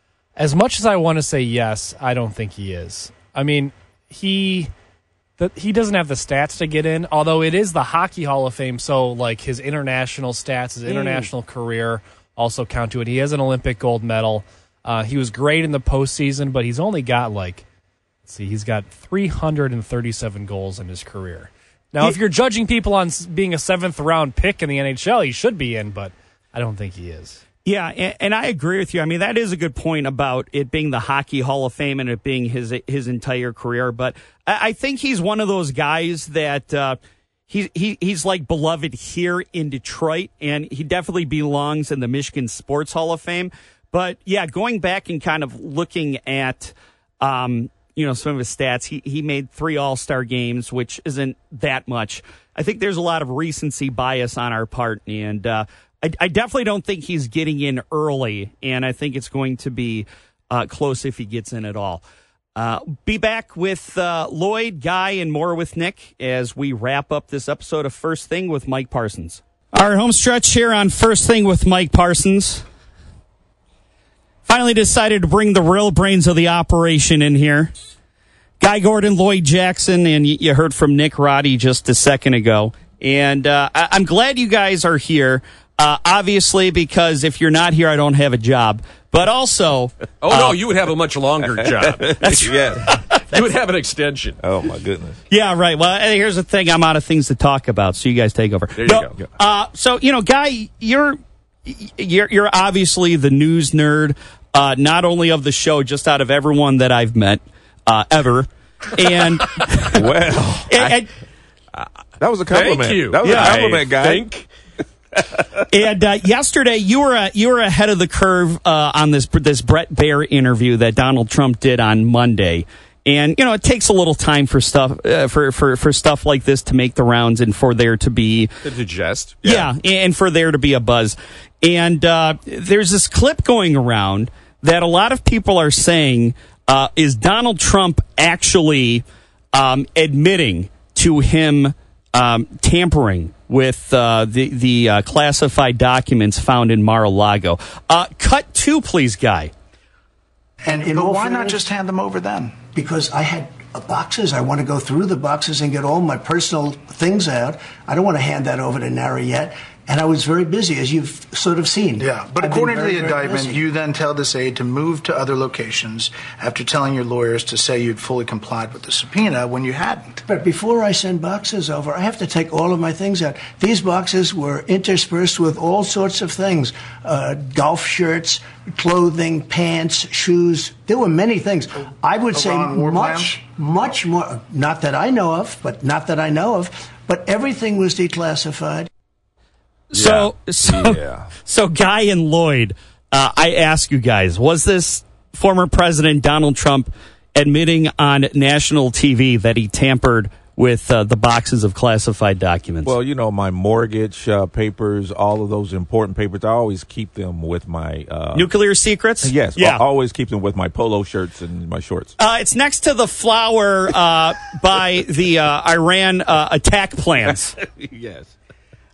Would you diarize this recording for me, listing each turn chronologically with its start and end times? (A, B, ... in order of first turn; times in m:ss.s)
0:00.4-0:04.7 A
0:05.4-0:17.6 A
0:18.3-0:27.4 A
0:27.6-0:37.0 B
0:37.5-1:02.0 B
1:02.6-1:12.6 B
1:14.5-1:17.7 B
1:18.6-1:30.6 B
1:30.2-1:34.4 C
1:31.8-1:32.9 D
1:32.2-1:33.4 B
1:34.4-1:35.2 D
1:35.3-1:50.0 B
1:38.8-1:39.2 C
1:49.9-1:50.8 D
1:50.7-1:51.1 B
1:50.7-1:51.0 C
1:52.2-1:54.3 D
1:52.5-1:54.5 C
1:53.2-1:53.5 B
1:55.7-2:08.5 B
2:08.6-2:09.4 C
2:09.4-2:29.5 B
2:30.6-2:32.6 E
2:30.7-2:31.6 F
2:32.7-2:43.6 F
2:42.0-2:50.1 E
2:50.2-3:08.9 F
3:02.3-3:03.4 E
3:09.9-3:22.9 B
3:10.0-3:10.3 C
3:10.8-3:11.3 D
3:22.8-3:28.5 D
3:28.3-3:29.8 B
3:29.2-3:32.1 D
3:32.2-3:37.6 B
3:37.6-3:38.3 D